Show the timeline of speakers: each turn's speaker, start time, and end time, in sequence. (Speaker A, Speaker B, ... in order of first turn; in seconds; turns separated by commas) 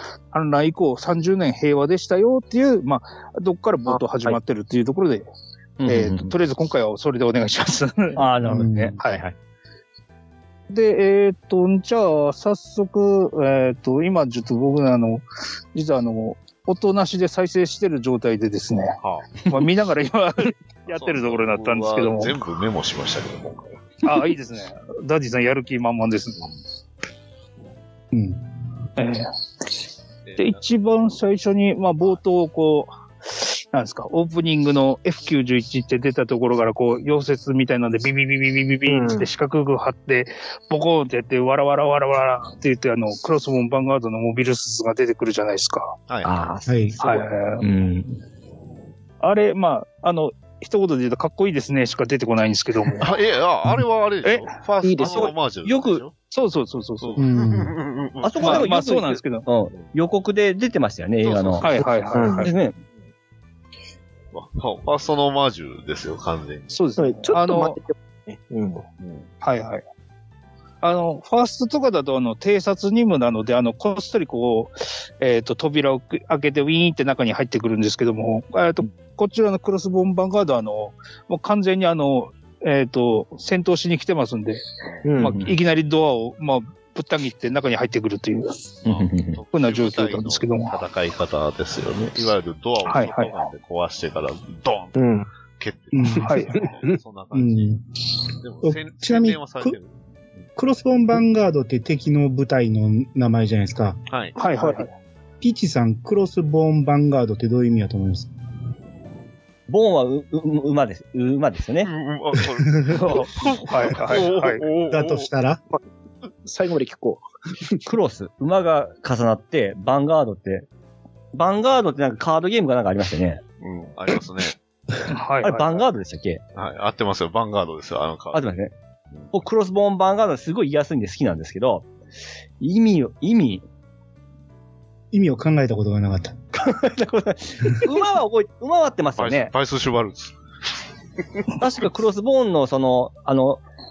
Speaker A: 0.3-5.2, Speaker B: 3.9-4.4, Speaker C: 5.8-6.4, Speaker A: 5.8-8.3, Speaker C: 8.2-9.3, Speaker D: 8.4-9.0, Speaker A: 10.7-19.0, Speaker E: 19.0-19.3, Speaker A: 19.5-22.4, Speaker E: 20.9-23.8, Speaker A: 24.0-26.5, Speaker D: 28.1-28.4, Speaker A: 29.0-29.3, Speaker E: 30.2-30.6, Speaker A: 30.4-46.0, Speaker B: 38.9-39.3, Speaker E: 46.1-46.4, Speaker C: 46.2-48.2, Speaker D: 46.7-47.0, Speaker A: 47.0-47.6, Speaker A: 49.2-53.1, Speaker E: 53.0-56.1, Speaker A: 54.2-57.2, Speaker B: 54.8-55.4, Speaker E: 57.0-58.7, Speaker D: 57.2-57.8, Speaker C: 58.2-61.7, Speaker A: 58.4-59.5, Speaker E: 61.2-62.1, Speaker A: 61.6-62.5, Speaker B: 62.1-62.5, Speaker C: 62.4-62.8, Speaker E: 64.3-66.8, Speaker A: 66.7-67.8, Speaker B: 67.0-68.8, Speaker E: 69.0-69.3, Speaker A: 69.4-69.8, Speaker A: 70.8-84.6, Speaker B: 85.0-85.4, Speaker A: 85.2-88.7, Speaker C: 85.2-85.6, Speaker E: 88.8-97.7, Speaker C: 88.8-89.4, Speaker A: 89.5-90.8, Speaker A: 92.9-93.4, Speaker B: 95.0-95.3, Speaker D: 95.9-96.4, Speaker B: 96.1-97.0, Speaker A: 96.3-96.5, Speaker D: 97.3-97.8, Speaker E: 98.4-99.9, Speaker D: 98.6-99.8, Speaker D: 100.6-104.0, Speaker E: 104.1-104.3, Speaker A: 104.4-104.9, Speaker B: 104.6-104.9, Speaker D: 105.4-108.3, Speaker C: 109.7-111.9, Speaker E: 111.8-115.3, Speaker D: 112.4-113.0, Speaker A: 112.9-114.6, Speaker D: 114.9-115.6, Speaker B: 116.5-117.8, Speaker C: 117.8-120.7, Speaker C: 121.3-123.4, Speaker E: 123.6-124.6, Speaker A: 125.1-125.8, Speaker C: 125.4-126.4, Speaker E: 126.5-128.5, Speaker C: 128.3-128.7, Speaker C: 129.3-131.9, Speaker C: 132.6-133.6, Speaker D: 135.1-136.5, Speaker C: 136.6-139.5, Speaker E: 139.2-140.3, Speaker C: 141.5-143.6